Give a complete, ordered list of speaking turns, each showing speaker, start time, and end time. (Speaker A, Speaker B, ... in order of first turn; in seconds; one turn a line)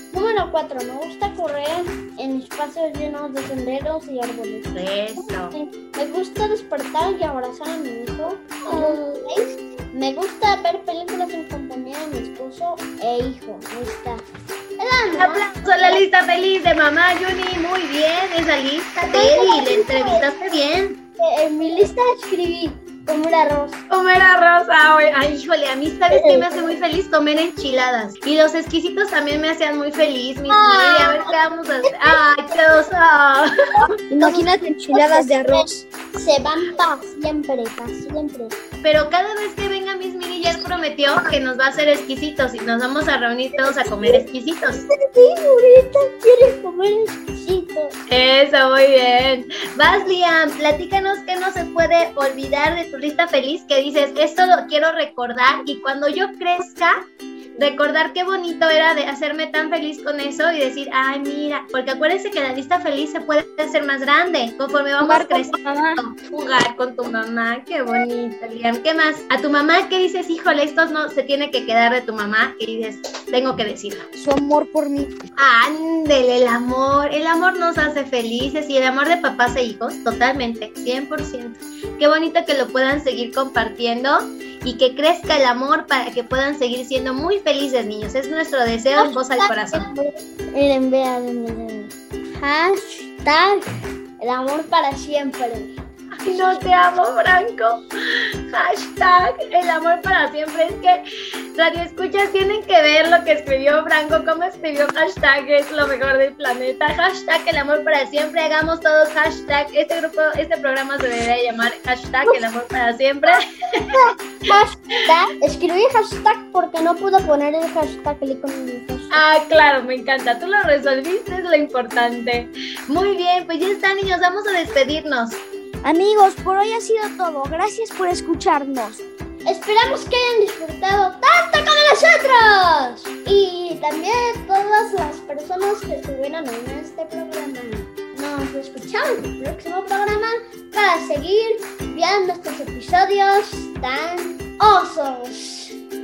Speaker A: 0.1-14.2
Speaker B: 4.7-5.5
Speaker B: 8.7-9.0
Speaker A: 14.8-16.0
Speaker B: 15.2-21.0
Speaker A: 19.0-20.2
Speaker A: 21.2-23.8
Speaker B: 23.9-33.5
Speaker A: 26.1-26.6
Speaker A: 30.5-31.3
Speaker A: 31.9-32.2
Speaker C: 34.1-35.8
Speaker A: 34.2-38.5
Speaker B: 38.8-44.8
Speaker A: 43.7-44.2
Speaker A: 44.9-47.9
Speaker B: 48.1-57.0
Speaker B: 57.6-74.0
Speaker C: 65.0-66.0
Speaker C: 74.2-75.1
Speaker B: 75.4-89.9
Speaker A: 88.9-93.6
Speaker A: 94.2-95.7
Speaker B: 96.2-97.8
Speaker B: 98.5-101.0
Speaker B: 101.5-114.0
Speaker A: 113.9-119.2
Speaker B: 119.1-125.4
Speaker C: 125.8-129.0
Speaker A: 129.4-145.7